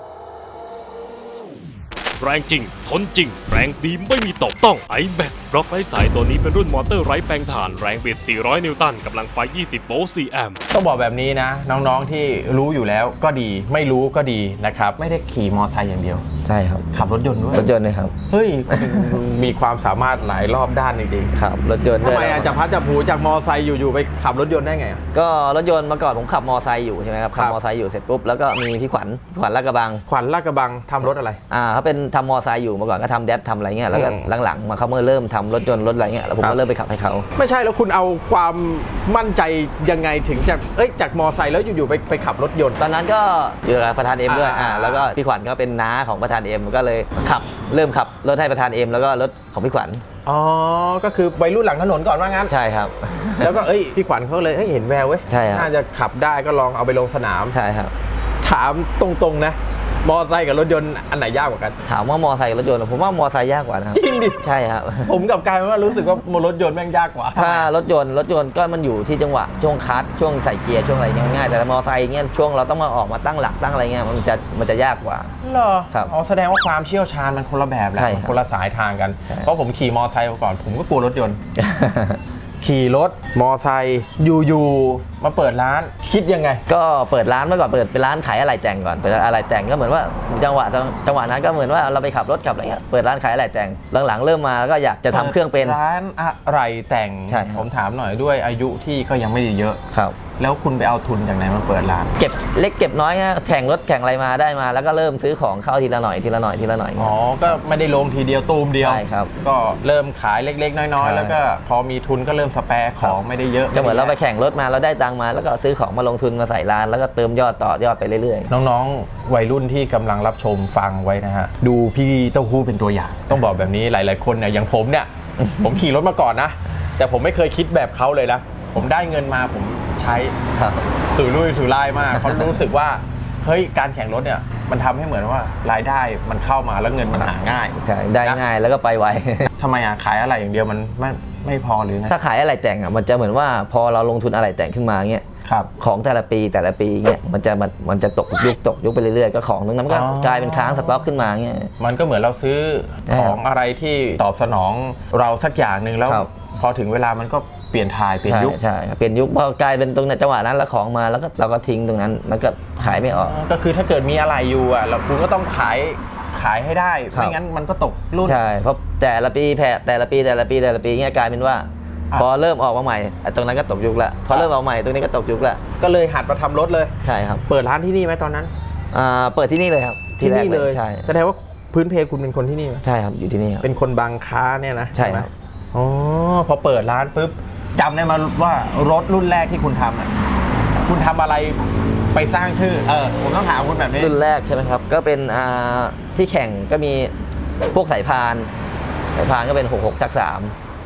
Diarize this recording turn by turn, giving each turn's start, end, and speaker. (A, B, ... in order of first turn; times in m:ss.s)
0:02.2-0:10.6 A
0:10.7-0:16.2 B
0:16.4-0:16.9 C
0:16.9-0:17.7 B
0:17.5-0:18.1 C
0:18.3-0:21.3 B
0:18.7-0:19.2 C
0:21.3-0:22.6 C
0:22.0-0:25.0 B
0:25.1-0:30.0 C
0:30.1-0:31.4 B
0:31.0-0:37.3 C
0:33.9-0:34.3 B
0:37.4-0:42.8 B
0:42.8-0:50.0 C
0:44.3-0:45.1 B
0:50.2-0:52.5 B
0:52.5-0:53.6 C
0:53.4-0:57.6 B
0:55.3-0:55.7 C
0:57.5-0:57.9 C
0:58.4-1:01.8 B
1:01.8-1:05.2 C
1:03.9-1:04.4 B
1:05.0-1:07.7 B
1:07.4-1:15.3 C
1:15.4-1:21.4 B
1:17.9-1:18.4 C
1:21.6-1:22.2 C
1:22.6-1:26.6 B
1:26.7-1:35.8 C
1:35.1-1:39.8 B
1:37.3-1:37.7 C
1:39.9-1:40.2 C
1:40.4-1:42.1 B
1:42.2-1:47.2 C
1:47.0-1:54.2 B
1:48.8-1:49.3 C
1:51.0-1:51.4 C
1:53.7-1:58.5 C
1:58.5-2:05.1 B
2:05.4-2:05.8 C
2:05.6-2:10.4 B
2:10.5-2:10.8 C
2:11.1-2:18.4 B
2:12.2-2:12.5 C
2:17.1-2:19.5 C
2:19.6-2:22.2 B
2:22.1-2:25.2 C
2:25.4-2:25.7 B
2:25.8-2:31.7 C
2:29.9-2:31.1 B
2:31.8-2:38.6 B
2:33.1-2:33.4 C
2:38.3-2:43.3 C
2:42.8-2:48.4 B
2:47.1-2:47.4 C
2:48.2-2:55.6 C
2:55.8-2:56.9 B
2:57.0-2:57.4 C
2:57.5-2:58.5 B
2:58.9-3:01.1 C
3:00.2-3:02.8 B
3:02.8-3:03.6 C
3:03.6-3:10.1 B
3:04.9-3:05.3 C
3:10.8-3:11.6 B
3:12.1-3:14.2 B
3:14.0-3:17.1 C
3:17.7-3:18.5 C
3:19.1-3:20.5 C